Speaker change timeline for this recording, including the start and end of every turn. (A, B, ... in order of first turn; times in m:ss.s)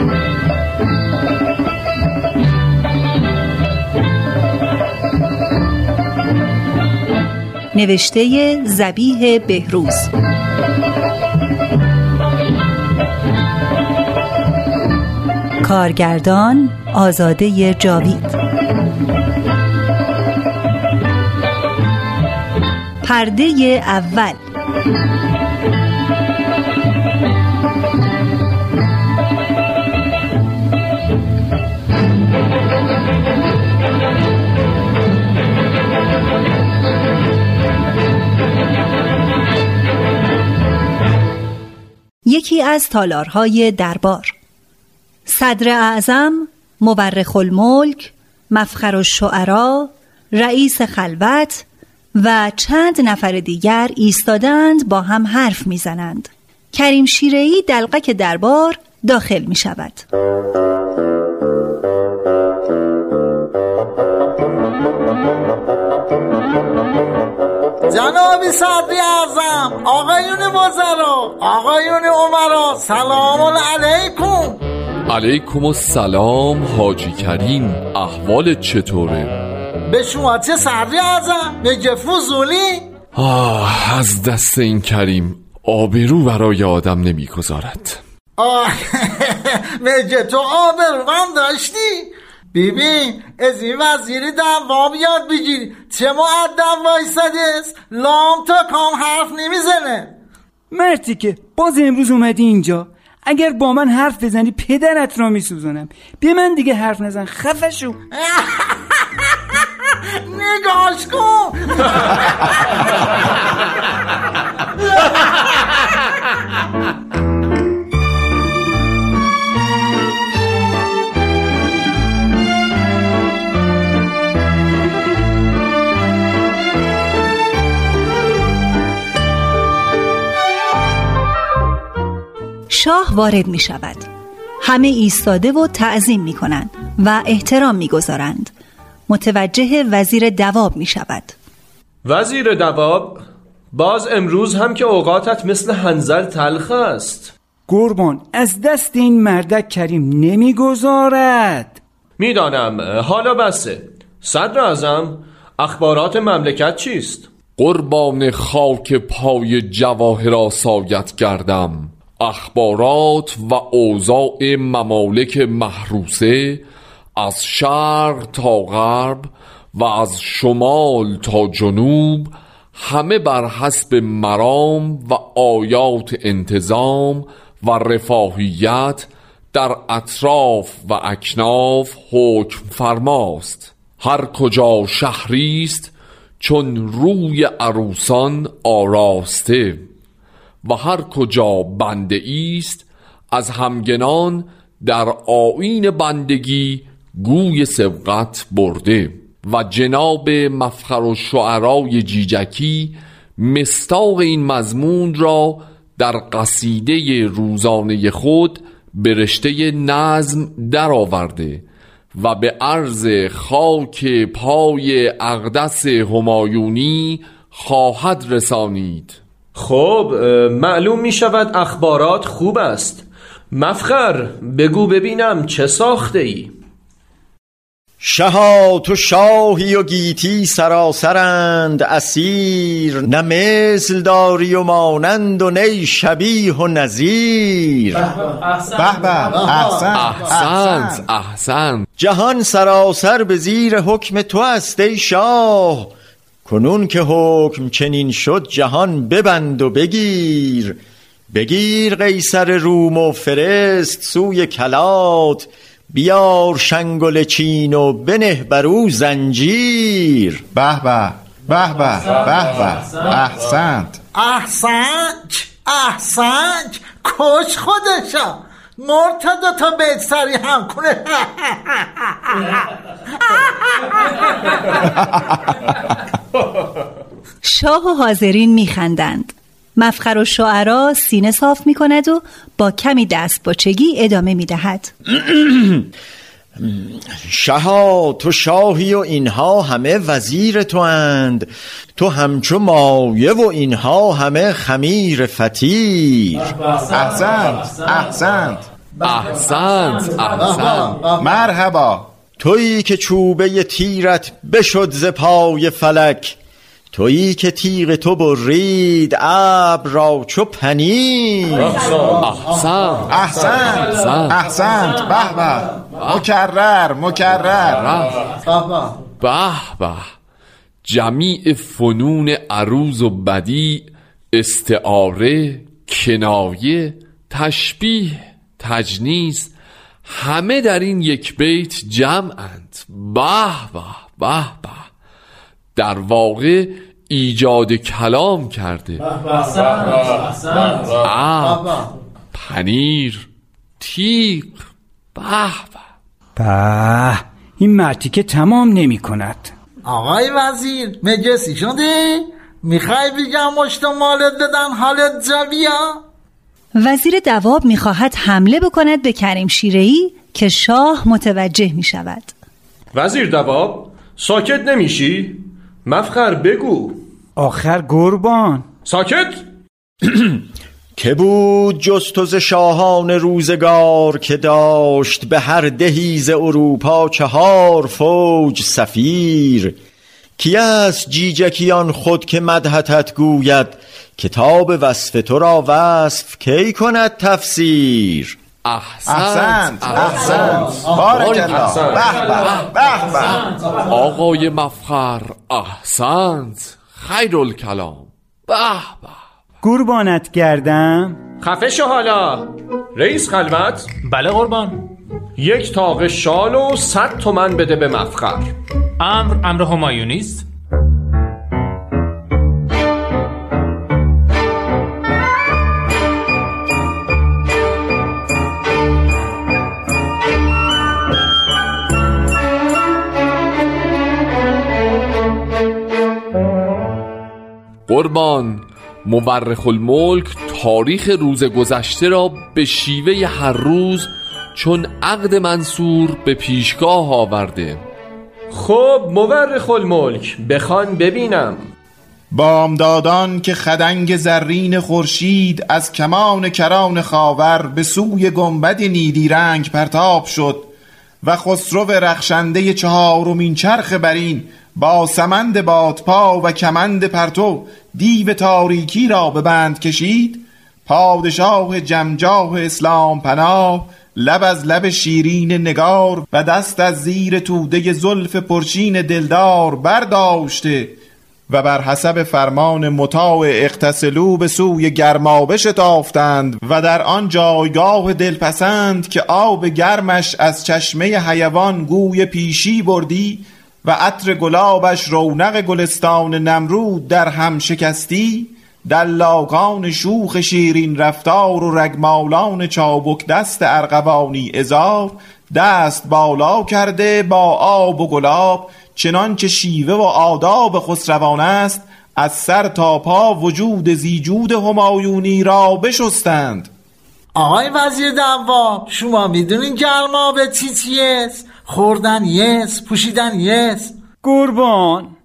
0:07.7-0:10.1 A
0:15.6-0:18.4 A
0:23.0-0:24.4 A
0:42.3-0:44.4 A
0:45.3-0:51.6 A
0:52.2-1:00.0 A
1:07.9-1:14.6 B
1:15.1-1:19.3 C
1:19.9-1:22.9 B
1:23.2-1:28.0 C
1:28.4-1:40.1 B
1:40.7-1:48.0 D
1:48.1-1:48.9 B
1:50.3-1:51.9 B
2:12.7-2:14.1 A
2:14.6-2:18.5 A
2:19.1-2:21.4 A
2:22.0-2:27.3 E
2:27.7-2:31.8 D
2:32.2-2:37.3 E
2:37.6-2:46.6 C
2:47.2-3:09.9 C
3:10.6-3:39.2 C
3:39.6-3:46.5 E
3:48.0-3:58.1 F
3:58.7-4:01.1 G
3:59.3-3:59.9 B
3:59.9-4:01.9 C
4:02.0-4:05.9 F
4:06.4-4:10.8 F
4:11.3-4:20.4 F
4:20.5-4:24.0 G
4:24.2-4:32.6 B
4:33.3-4:34.1 B
4:37.4-4:44.9 A
4:45.1-4:45.9 F
4:46.6-4:56.5 F
4:56.9-4:58.7 G
4:59.0-5:01.0 C
5:00.4-5:01.3 B
5:01.2-5:02.1 G
5:02.4-5:06.4 F
5:06.9-5:11.8 F
5:12.0-5:14.4 C
5:13.1-5:17.8 G
5:16.0-5:16.3 C
5:17.7-5:18.2 C
5:18.5-5:19.0 B
5:19.2-5:20.1 C
5:20.8-5:29.5 C
5:30.0-5:34.9 C
5:35.8-5:39.0 C
5:40.9-5:41.7 C
5:41.4-5:41.9 B
5:42.3-5:43.3 C
5:43.8-5:45.8 C
5:46.4-5:49.5 D
5:49.8-5:56.0 B
5:56.8-6:02.3 A
6:02.9-6:07.0 E
6:07.4-6:08.7 D
6:08.9-6:09.4 E
6:10.0-6:10.4 F
6:11.0-6:19.8 F
6:20.4-6:28.4 F
6:28.6-6:32.7 C
6:29.1-6:33.5 G
6:33.9-6:39.2 C
6:39.6-6:41.2 D
6:41.4-6:43.9 E
6:44.0-6:44.8 H
6:45.4-6:48.5 E
6:49.0-6:50.5 H
7:07.9-7:17.8 C
7:18.5-7:21.6 E
7:22.3-7:30.7 G
7:31.2-7:51.0 G
7:51.5-8:26.7 G
8:27.4-8:33.9 B
8:34.2-8:35.1 D